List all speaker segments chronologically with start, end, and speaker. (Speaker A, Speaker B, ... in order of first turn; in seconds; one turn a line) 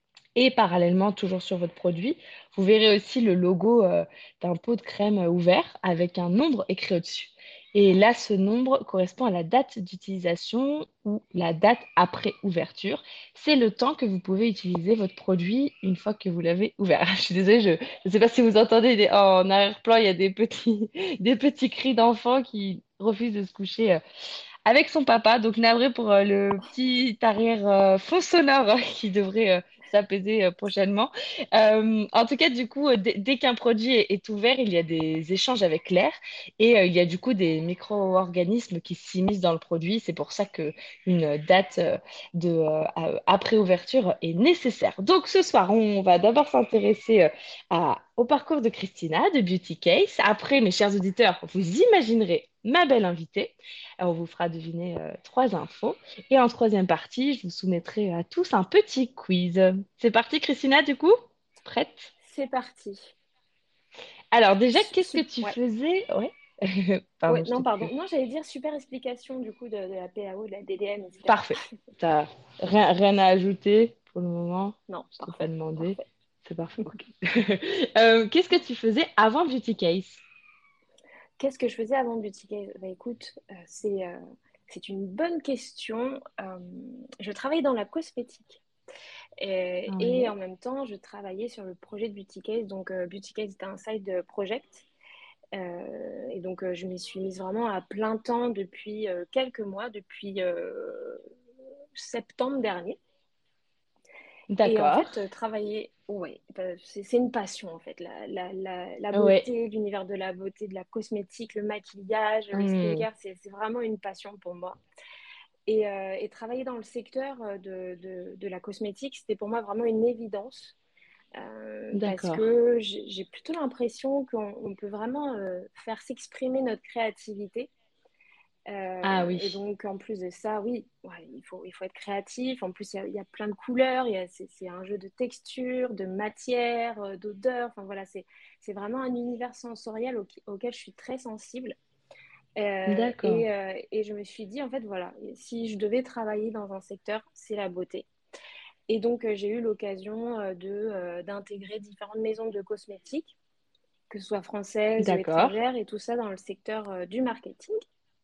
Speaker A: 0.3-24.0
Speaker A: 24.6-62.1
Speaker B: 62.2-63.1
Speaker A: 64.3-67.9
Speaker B: 64.8-65.5
Speaker B: 67.3-71.7
Speaker A: 71.3-80.2
Speaker B: 74.9-76.0
Speaker B: 76.8-77.0
Speaker B: 81.4-88.6
Speaker B: 89.4-94.8
Speaker A: 89.9-90.3
Speaker B: 95.5-101.2
Speaker B: 102.0-103.0
Speaker A: 104.5-105.1
Speaker B: 104.6-114.8
Speaker A: 109.1-109.5
Speaker A: 112.5-113.0
Speaker B: 115.7-120.7
Speaker B: 121.3-127.7
Speaker A: 121.9-122.4
Speaker B: 128.7-141.8
Speaker A: 129.0-129.6
Speaker B: 142.6-148.1
Speaker A: 142.9-143.4
Speaker B: 148.9-153.3
Speaker B: 154.1-157.8
Speaker A: 155.0-155.6